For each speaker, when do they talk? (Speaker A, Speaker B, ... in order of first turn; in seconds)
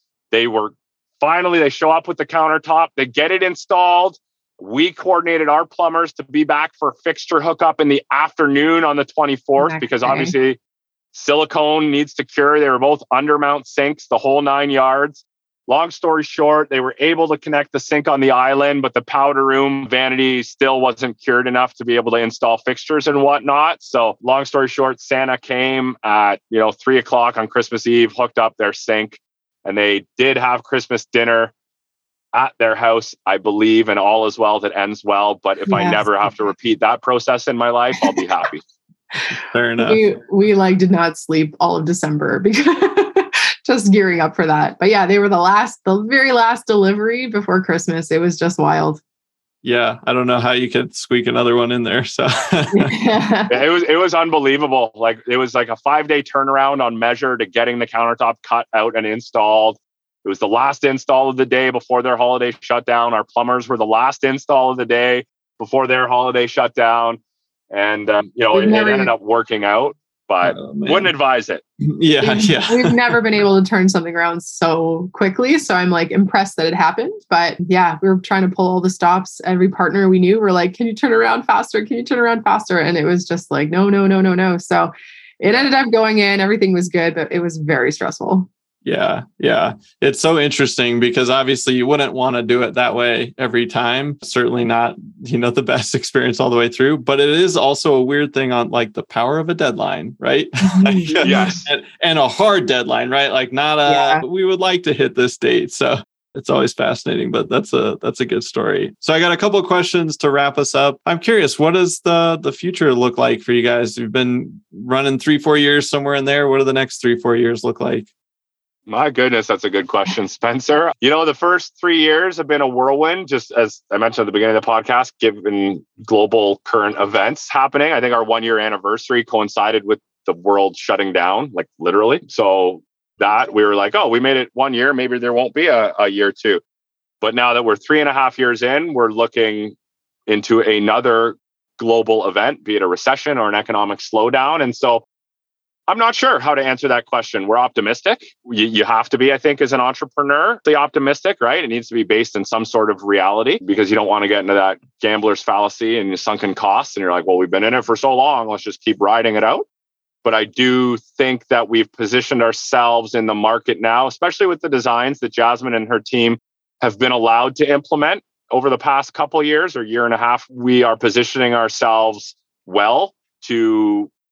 Speaker A: 0.3-10.6, 11.1-31.5, 32.3-38.6, 53.5-67.2, 67.7-71.6, 101.2-101.7, 118.9-136.6, 137.2-139.7, 140.3-145.1, 145.9-159.6, 160.2-174.1
Speaker B: 9.6-10.3, 35.7-36.0, 39.8-49.0, 52.7-53.6, 68.5-69.1, 72.2-88.5, 100.6-101.5, 103.9-104.2
Speaker C: 39.4-40.0, 49.6-52.9, 70.4-71.1, 71.8-73.2, 88.8-118.1